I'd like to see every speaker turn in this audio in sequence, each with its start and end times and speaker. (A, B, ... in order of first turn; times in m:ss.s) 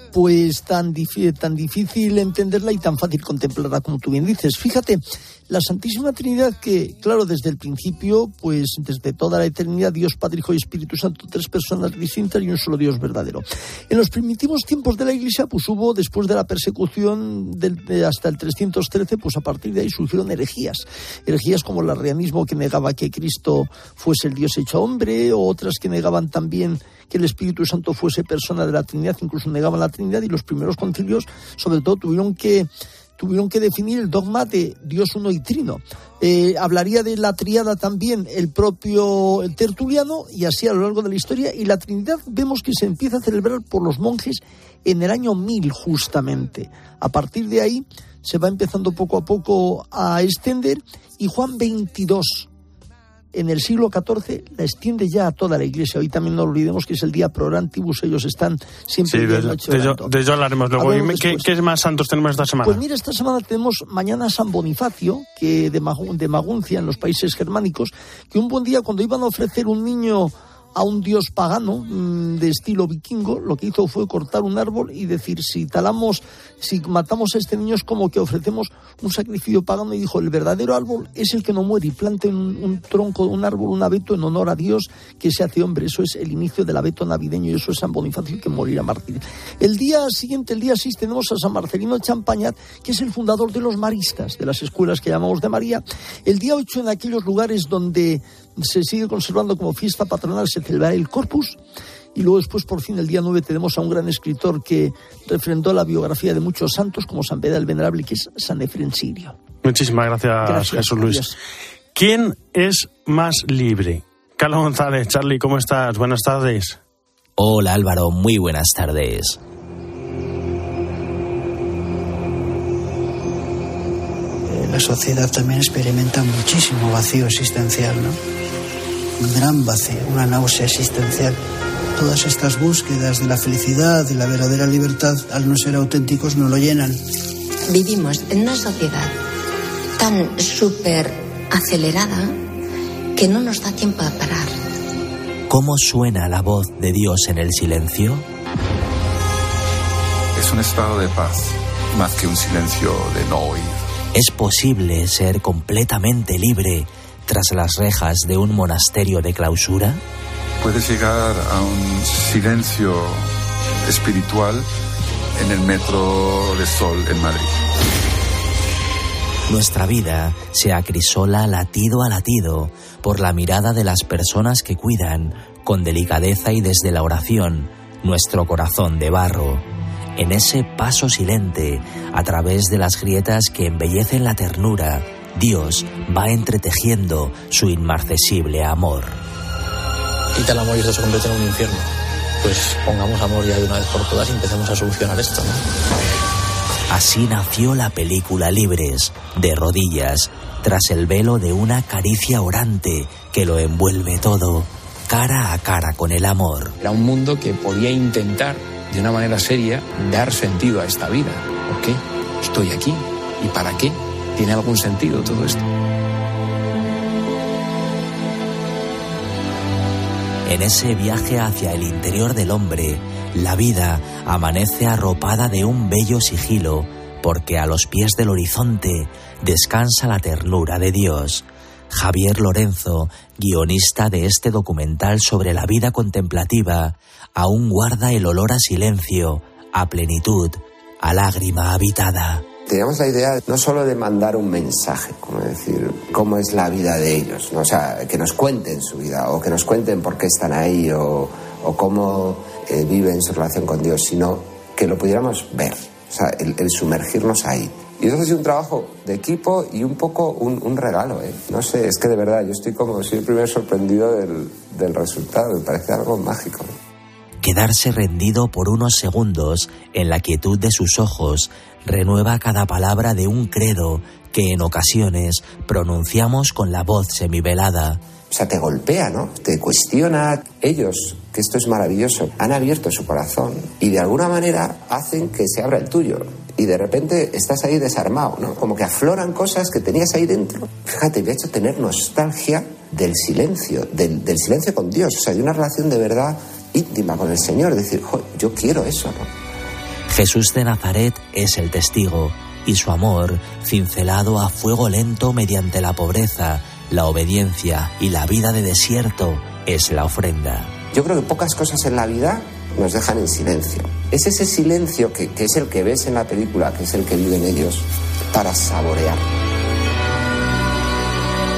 0:00.1-0:52.5 A
0:53.3-1:00.1 A
0:59.1-1:02.8 B
1:00.8-1:01.5 A
1:02.6-1:41.6 A
1:42.2-1:49.4 A
1:49.6-1:51.2 B
1:50.4-1:51.4 A
1:51.9-1:56.8 B
1:57.4-1:59.4 C
2:04.5-2:08.2 D
2:09.2-2:11.4 D
2:12.0-2:17.0 D
2:17.7-2:19.1 E
2:20.0-2:22.3 E
2:23.2-2:24.5 E
2:25.5-2:28.2 C
2:30.4-2:33.8 F
2:34.1-2:40.0 C
2:40.6-2:43.3 F
2:43.8-2:44.7 F
2:45.4-2:47.6 F
2:49.5-2:59.6 C
3:00.2-3:09.2 C
3:10.4-3:15.6 G
3:16.9-3:26.7 C
3:26.8-3:35.7 G
3:40.5-4:02.4 C
4:02.7-4:26.7 H
4:27.4-4:38.0 C
4:38.3-4:59.3 H
5:00.1-5:10.7 C
5:10.9-5:19.2 H